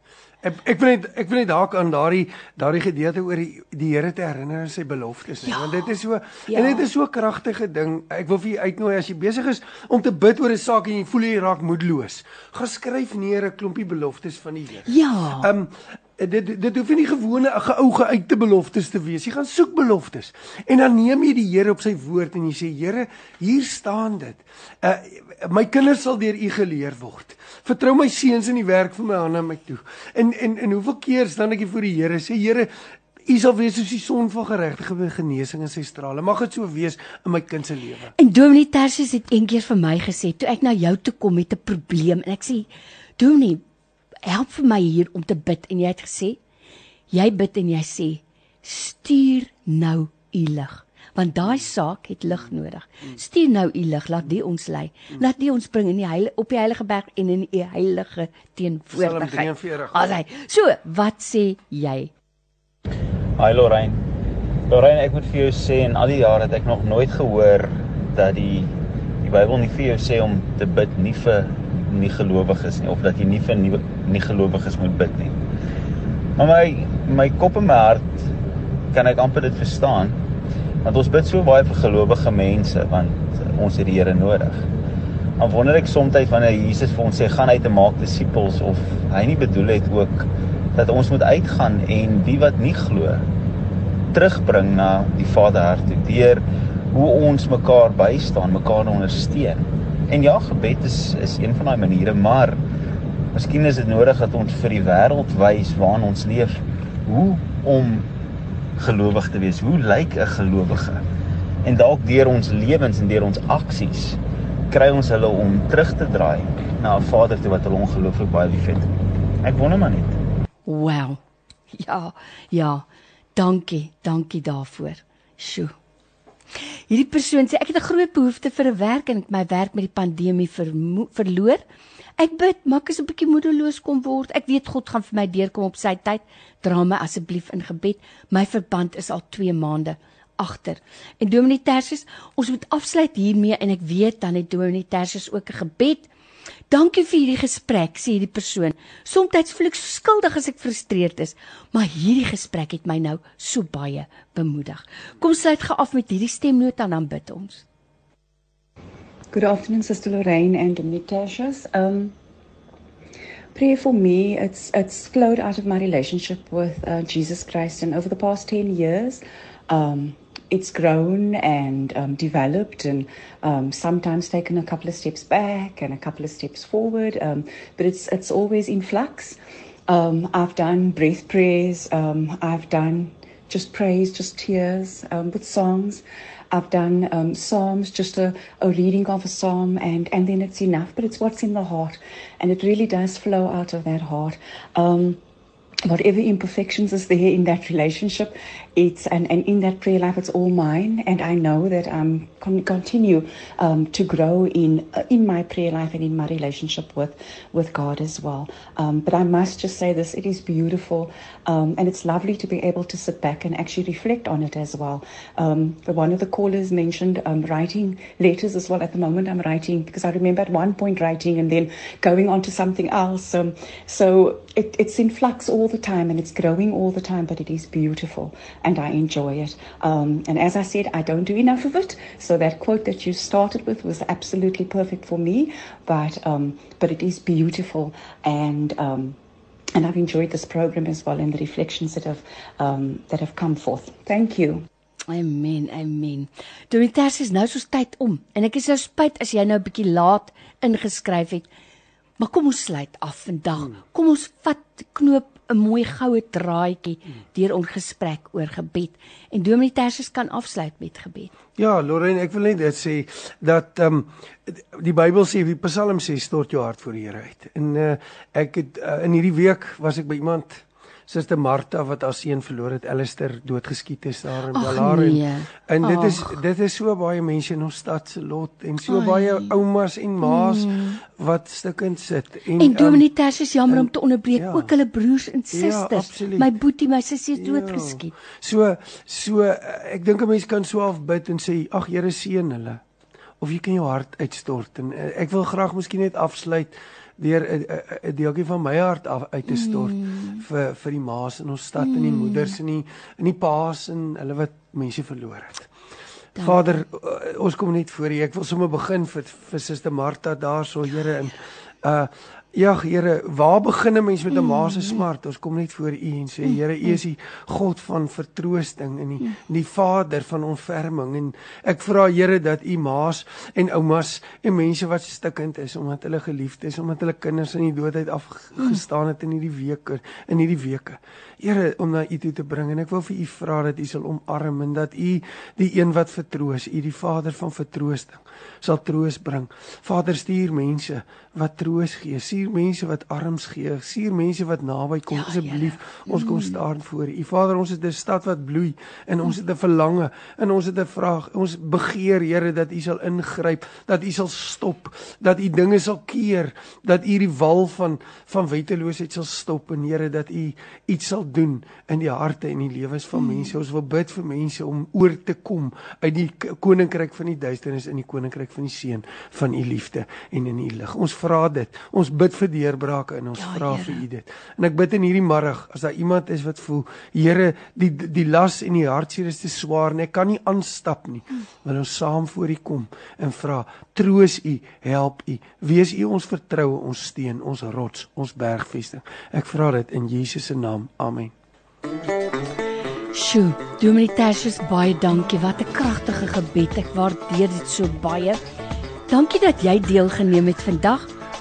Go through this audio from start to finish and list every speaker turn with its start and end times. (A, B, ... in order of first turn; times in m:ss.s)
0:00.4-0:32.7 A
0:05.5-0:05.9 B
0:06.5-0:06.8 B
0:14.9-0:15.5 B
0:33.2-0:38.1 A
0:38.2-0:42.7 B
0:43.2-0:43.6 B
0:44.2-0:46.4 B
0:47.1-1:02.1 B
0:58.9-1:00.1 A
1:03.4-1:04.0 C
1:04.7-1:08.7 C
1:09.2-1:15.4 C
1:16.4-1:18.3 C
1:18.9-1:20.2 C
1:20.8-1:24.7 C
1:25.4-1:30.2 C
1:30.8-1:33.2 C
1:34.1-1:42.6 C
1:43.3-1:48.1 C
1:48.8-1:51.0 C
1:51.6-1:54.2 C
1:54.7-1:58.9 C
1:59.4-2:00.2 C
2:00.7-2:01.2 B
2:01.7-2:05.7 B
2:06.9-2:11.6 B
2:12.2-2:26.1 B
2:26.7-2:37.6 B
2:39.3-2:42.2 D
2:43.5-3:15.2 D
3:15.8-3:59.2 D
3:59.8-4:04.6 D
4:05.1-4:11.5 B
4:12.2-4:21.3 B
4:21.6-4:43.1 A
4:34.6-4:36.4 B
4:38.9-4:39.5 B
4:40.2-4:41.0 B
4:42.6-4:48.1 B
4:43.7-4:44.7 A
4:45.5-4:46.5 A
4:47.4-4:52.8 A
4:53.4-5:05.7 A
4:59.5-5:00.4 B
5:01.8-5:02.6 B
5:06.4-6:31.3 A
5:14.4-5:15.0 B
5:45.1-5:46.6 B
6:03.2-6:03.5 B
6:13.4-6:14.0 B
6:33.1-6:38.4 B
6:39.1-6:41.1 B